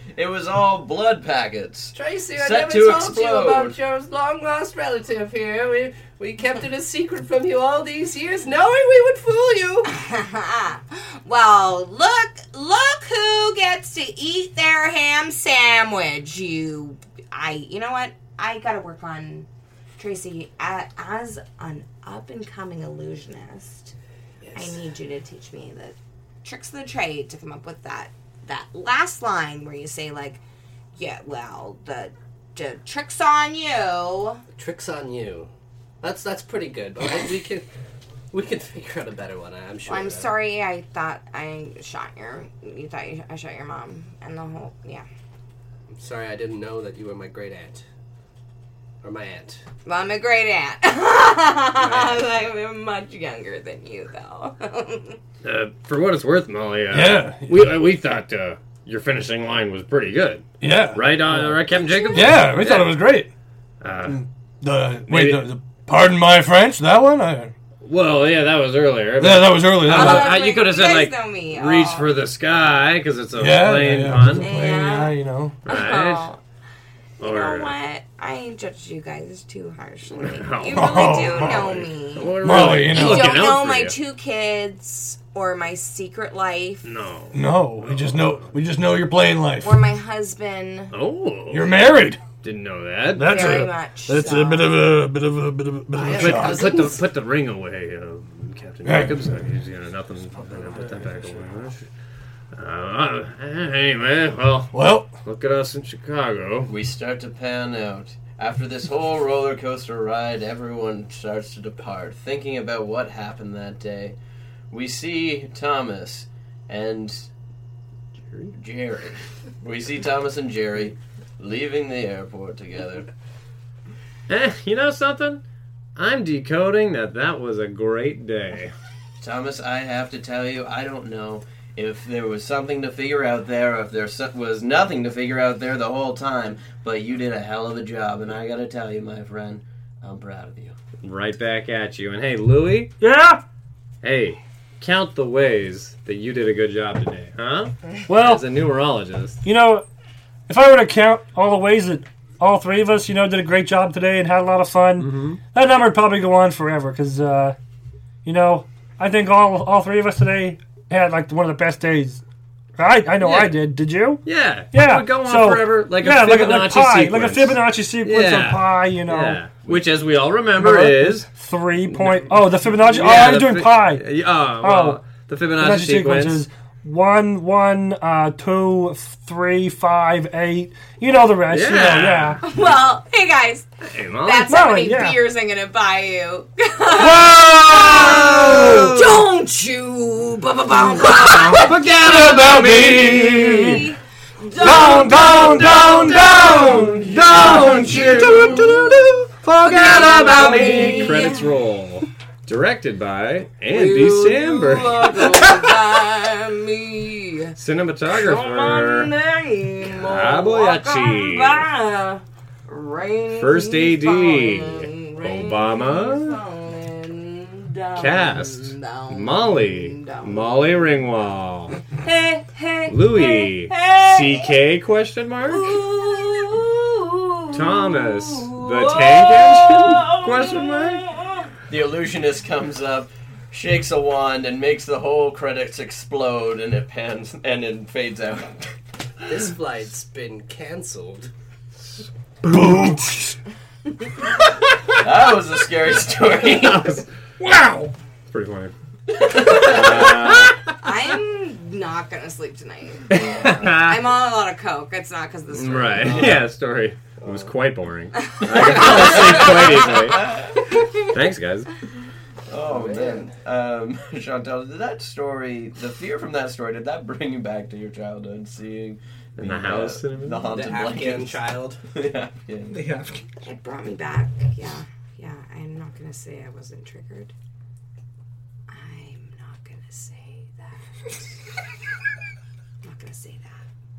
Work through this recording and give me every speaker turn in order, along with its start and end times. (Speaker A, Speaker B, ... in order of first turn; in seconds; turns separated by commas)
Speaker A: 0.2-3.8, Speaker B: 1.9-9.9, Speaker C: 9.9-23.9, Speaker B: 24.4-24.8, Speaker C: 24.6-30.4, Speaker C: 31.0-34.4, Speaker B: 34.6-35.5, Speaker B: 36.0-37.7, Speaker B: 38.3-40.3, Speaker C: 39.9-45.1, Speaker B: 45.9-47.8, Speaker B: 49.0-49.6, Speaker C: 49.9-55.2, Speaker B: 51.8-52.2, Speaker D: 55.4-63.0, Speaker E: 56.9-57.7, Speaker E: 60.6-61.6, Speaker C: 61.7-62.5, Speaker E: 62.1-63.3, Speaker D: 63.8-64.2, Speaker E: 64.1-67.5, Speaker D: 65.1-65.4, Speaker D: 67.8-74.5, Speaker E: 69.2-70.4, Speaker C: 69.8-72.1, Speaker E: 73.4-75.6, Speaker C: 74.4-75.2, Speaker D: 75.7-76.3, Speaker C: 75.7-76.4, Speaker D: 77.2-77.7, Speaker C: 77.2-86.9, Speaker D: 80.1-81.6, Speaker E: 80.7-83.4, Speaker D: 82.2-84.0, Speaker D: 86.8-88.5, Speaker E: 87.3-89.8, Speaker C: 89.6-90.9, Speaker D: 90.9-91.8, Speaker E: 91.5-92.2, Speaker D: 92.4-93.4, Speaker E: 93.2-96.7, Speaker C: 93.2-94.7, Speaker B: 96.0-97.0, Speaker D: 96.2-101.9, Speaker E: 98.8-99.3, Speaker E: 100.5-101.3, Speaker D: 102.5-106.7, Speaker E: 104.7-105.1, Speaker A: 106.7-114.2, Speaker A: 114.7-117.3, Speaker A: 118.6-123.1, Speaker D: 124.3-125.4, Speaker D: 126.0-128.7, Speaker A: 129.2-140.8, Speaker D: 141.0-142.9, Speaker F: 143.0-143.4, Speaker D: 144.0-149.4, Speaker F: 148.1-148.5, Speaker F: 149.4-149.9, Speaker F: 150.5-157.6, Speaker D: 155.0-155.4, Speaker F: 158.2-162.2, Speaker F: 162.8-169.4, Speaker D: 163.2-163.6, Speaker D: 164.2-171.3, Speaker F: 170.6-174.1, Speaker D: 171.9-176.5, Speaker F: 174.6-175.0, Speaker F: 175.6-182.4, Speaker D: 181.5-182.4, Speaker E: 181.7-182.0, Speaker C: 182.4-183.7, Speaker D: 183.8-184.5, Speaker C: 184.2-192.9, Speaker F: 184.5-185.2, Speaker E: 187.0-188.9, Speaker D: 187.7-189.3, Speaker D: 190.9-193.8, Speaker E: 191.4-193.8, Speaker C: 193.4-198.7, Speaker E: 194.6-201.1, Speaker A: 196.2-196.5, Speaker A: 197.2-198.6, Speaker D: 197.2-198.6, Speaker D: 199.4-205.1, Speaker C: 199.6-201.5, Speaker A: 200.2-201.3, Speaker C: 203.7-207.6, Speaker A: 203.8-205.6, Speaker D: 207.6-209.1, Speaker C: 208.1-220.8, Speaker D: 210.0-211.7, Speaker D: 213.3-216.4, Speaker D: 218.0-221.8, Speaker C: 221.8-224.5, Speaker D: 222.9-225.8, Speaker C: 225.4-229.3, Speaker D: 227.5-231.1, Speaker A: 228.9-230.1, Speaker C: 230.1-231.5, Speaker A: 231.7-238.7, Speaker B: 239.3-241.3, Speaker E: 242.5-243.3, Speaker A: 245.0-247.0, Speaker D: 246.5-247.1, Speaker E: 247.4-247.7, Speaker F: 247.5-247.9, Speaker D: 248.3-248.7, Speaker A: 249.2-249.8, Speaker D: 249.4-250.6, Speaker C: 249.5-256.4, Speaker D: 253.1-254.0, Speaker D: 255.5-260.3, Speaker C: 258.3-260.0, Speaker A: 258.5-260.7, Speaker D: 261.0-261.7, Speaker A: 262.5-272.8, Speaker B: 262.7-263.4, Speaker D: 269.4-270.5, Speaker B: 270.5-271.8, Speaker E: 272.7-273.2, Speaker C: 273.4-277.3, Speaker C: 278.7-281.2, Speaker C: 282.8-283.6